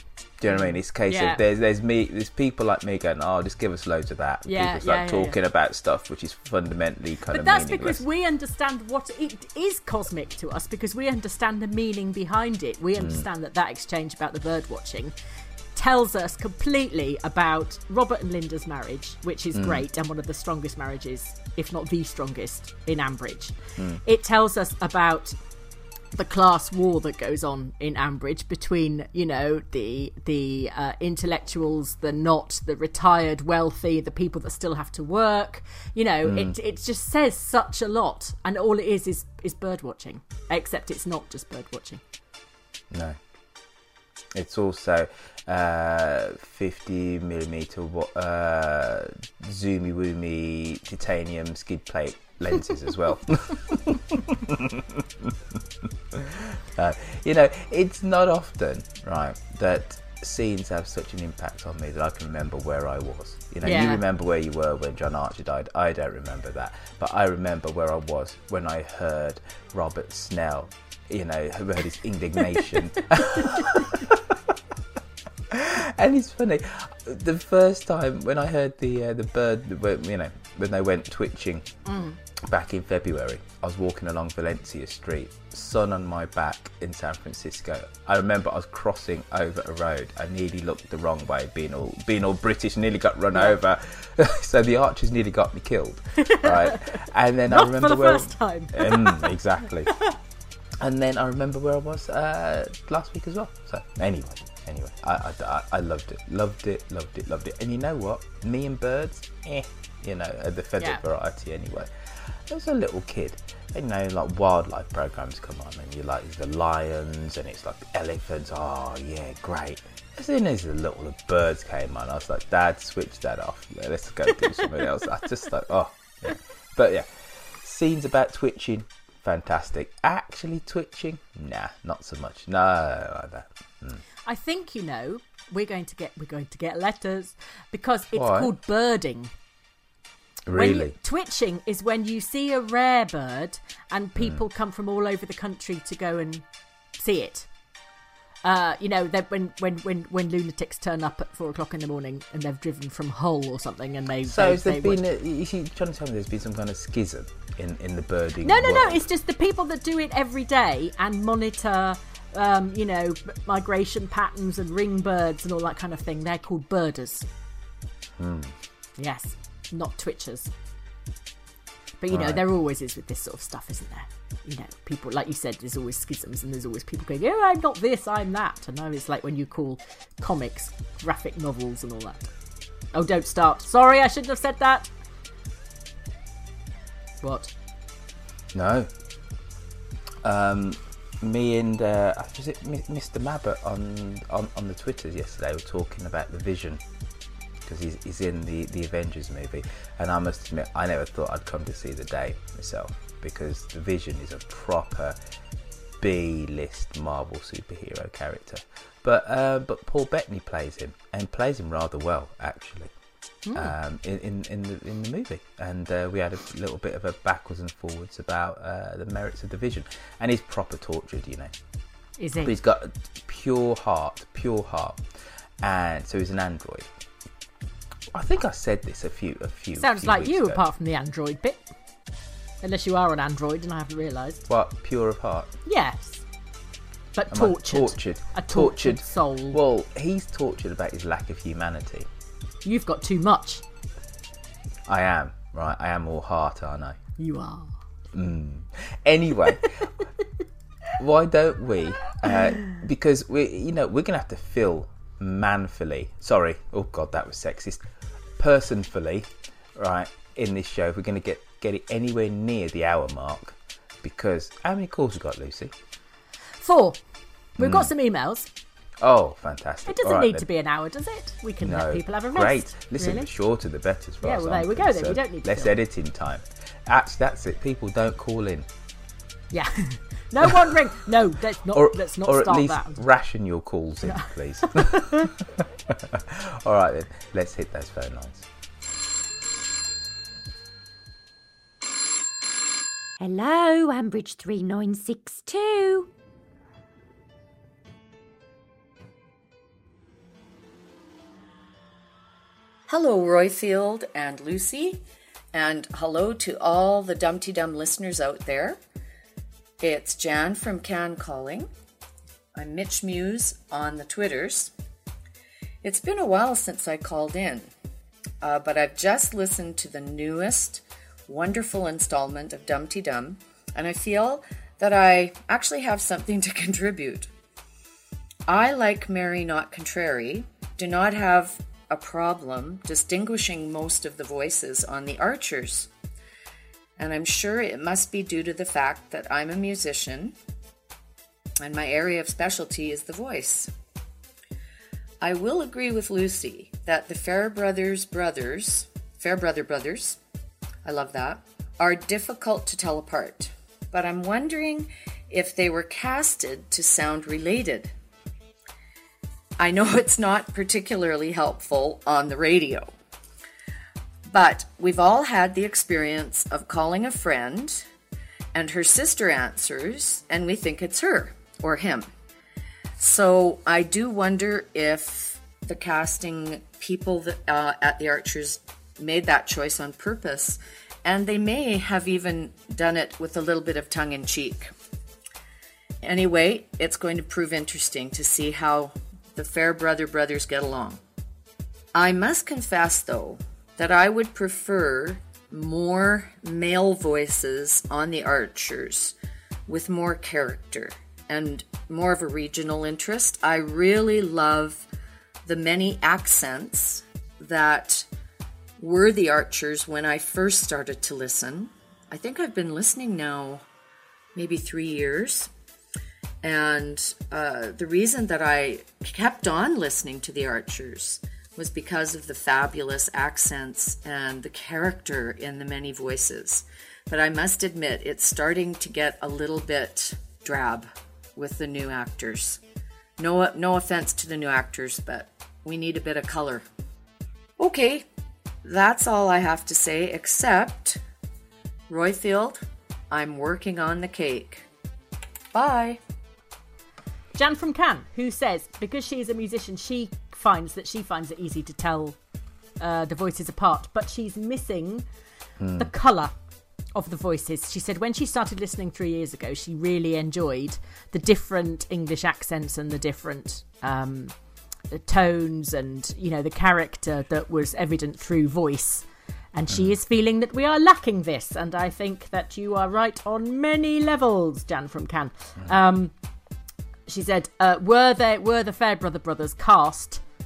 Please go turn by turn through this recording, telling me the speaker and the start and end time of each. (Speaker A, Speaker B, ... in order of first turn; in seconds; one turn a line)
Speaker A: 0.4-8.0
Speaker B: 0.5-1.4
Speaker B: 4.5-5.4
Speaker B: 7.3-15.1
Speaker A: 13.0-13.2
Speaker B: 15.8-25.4
Speaker A: 19.5-19.9
Speaker B: 26.1-42.0
Speaker A: 36.2-36.5
Speaker A: 42.9-43.2
Speaker A: 44.4-55.4
Speaker A: 56.1-74.3
Speaker B: 63.6-64.0
Speaker A: 75.5-81.7
Speaker B: 81.9-82.2
Speaker A: 82.4-99.9
Speaker B: 96.2-96.8
Speaker B: 97.5-99.4
Speaker A: 100.8-127.1
Speaker A: 127.6-134.0
Speaker B: 134.3-139.3
Speaker A: 138.1-138.5
Speaker A: 140.4-140.9
Speaker B: 140.5-146.4
Speaker B: 147.0-147.5
Speaker B: 148.4-155.0
Speaker A: 154.3-159.1
Speaker B: 158.4-167.3
Speaker A: 168.2-168.5
Speaker B: 169.0-170.5
Speaker B: 172.0-182.3
Speaker A: 172.1-172.4
Speaker B: 182.9-184.9
Speaker B: 187.2-187.5
Speaker A: 188.5-188.9
Speaker A: 190.2-196.8
Speaker A: 197.6-205.2
Speaker A: 206.0-212.9
Speaker B: 213.4-213.7
Speaker A: 213.5-221.5
Speaker B: 222.2-222.6
Speaker A: 222.4-225.0
Speaker A: 225.6-226.9
Speaker A: 228.1-230.6
Speaker B: 229.8-231.6
Speaker B: 232.6-234.4
Speaker A: 234.5-235.5
Speaker B: 235.7-236.2
Speaker B: 237.1-239.6
Speaker A: 237.3-242.1
Speaker B: 242.6-243.6
Speaker A: 244.9-247.0
Speaker B: 247.2-247.7
Speaker A: 248.1-249.7
Speaker A: 251.0-257.9
Speaker A: 258.4-265.7
Speaker B: 266.6-267.0
Speaker B: 267.6-268.5
Speaker A: 267.6-267.9
Speaker A: 269.0-270.4
Speaker B: 269.9-273.3
Speaker A: 271.6-278.6
Speaker B: 274.2-275.7
Speaker B: 279.5-283.0
Speaker A: 281.7-288.4
Speaker B: 284.1-285.3
Speaker C: 293.2-296.1
Speaker D: 302.9-308.8
Speaker D: 309.8-311.7
Speaker D: 312.6-314.7
Speaker D: 315.8-317.7
Speaker D: 318.4-327.3
Speaker D: 328.5-335.9
Speaker D: 337.0-340.4
Speaker D: 341.6-343.7
Speaker D: 345.2-350.2
Speaker D: 350.8-357.9
Speaker D: 359.6-362.9
Speaker D: 364.3-367.9
Speaker D: 368.5-372.1
Speaker D: 373.0-384.7
Speaker D: 386.0-391.0
Speaker D: 391.9-399.1
Speaker D: 399.7-404.9
Speaker D: 405.4-408.1
Speaker D: 408.8-413.6
Speaker D: 414.4-415.5
Speaker D: 416.4-432.6
Speaker D: 433.2-436.6
Speaker D: 437.6-438.1
Speaker D: 438.6-441.0
Speaker D: 441.9-444.6
Speaker D: 445.6-446.0
Speaker B: 447.4-452.1
Speaker B: 452.8-455.1
Speaker A: 455.6-455.9
Speaker B: 455.8-456.3
Speaker B: 456.9-464.3
Speaker B: 464.9-476.1
Speaker A: 469.7-469.9
Speaker B: 477.1-480.2